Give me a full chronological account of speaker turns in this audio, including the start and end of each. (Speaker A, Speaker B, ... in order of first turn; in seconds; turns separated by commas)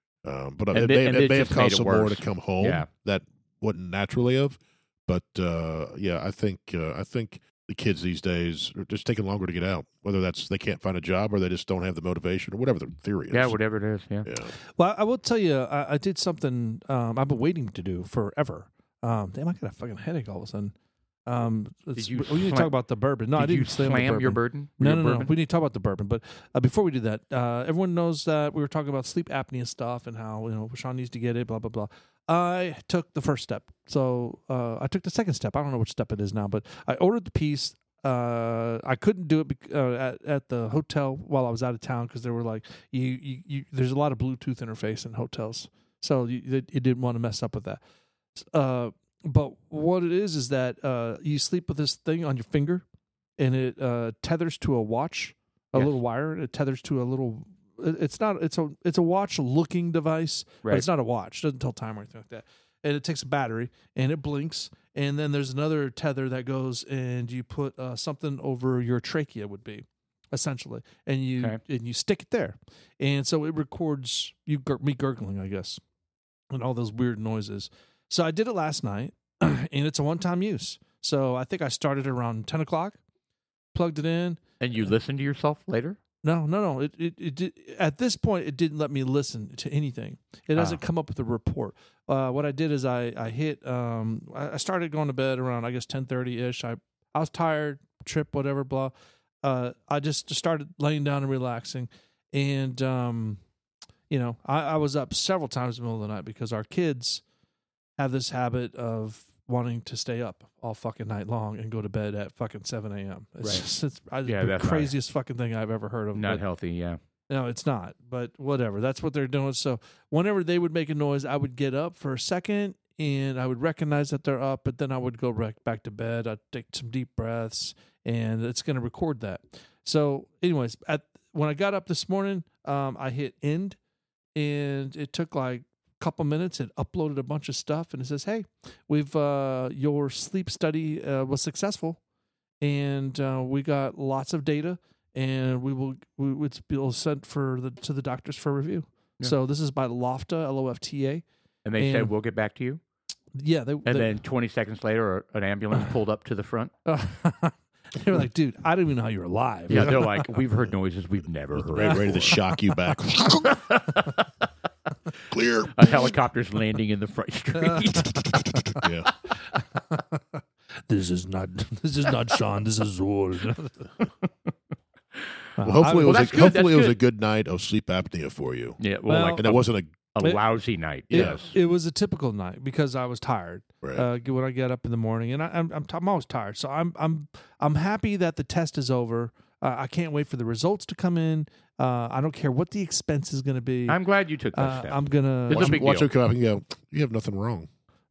Speaker A: 0.2-13.6, Speaker B: 0.7-2.9, Speaker B: 13.3-14.3, Speaker A: 14.2-14.5, Speaker C: 14.6-20.7, Speaker C: 21.3-47.8, Speaker B: 22.0-22.7, Speaker B: 23.3-25.3, Speaker C: 48.4-52.8, Speaker C: 53.4-75.8, Speaker C: 76.5-83.0, Speaker C: 83.7-84.9, Speaker B: 84.6-86.0, Speaker C: 86.2-98.9, Speaker C: 99.4-103.4, Speaker C: 104.1-107.2, Speaker C: 108.0-116.4, Speaker B: 114.2-114.9, Speaker B: 116.1-117.0, Speaker C: 117.3-133.8, Speaker C: 134.3-142.0, Speaker C: 142.6-151.2, Speaker B: 151.6-152.8, Speaker C: 151.8-152.1, Speaker C: 153.4-154.2, Speaker B: 153.8-156.7, Speaker C: 156.8-160.0, Speaker B: 159.7-162.4, Speaker A: 159.7-160.3, Speaker A: 161.5-163.6, Speaker B: 163.3-164.5, Speaker A: 165.3-166.1, Speaker B: 165.7-168.8, Speaker C: 167.6-168.8, Speaker A: 168.8-169.1, Speaker C: 169.5-173.9, Speaker C: 175.6-176.2, Speaker A: 175.6-178.8, Speaker B: 175.8-177.0, Speaker B: 178.8-181.5, Speaker C: 179.1-179.5, Speaker A: 179.4-179.9, Speaker C: 181.1-194.0, Speaker A: 181.1-181.4, Speaker B: 193.9-196.1, Speaker C: 194.5-195.8, Speaker A: 195.5-197.7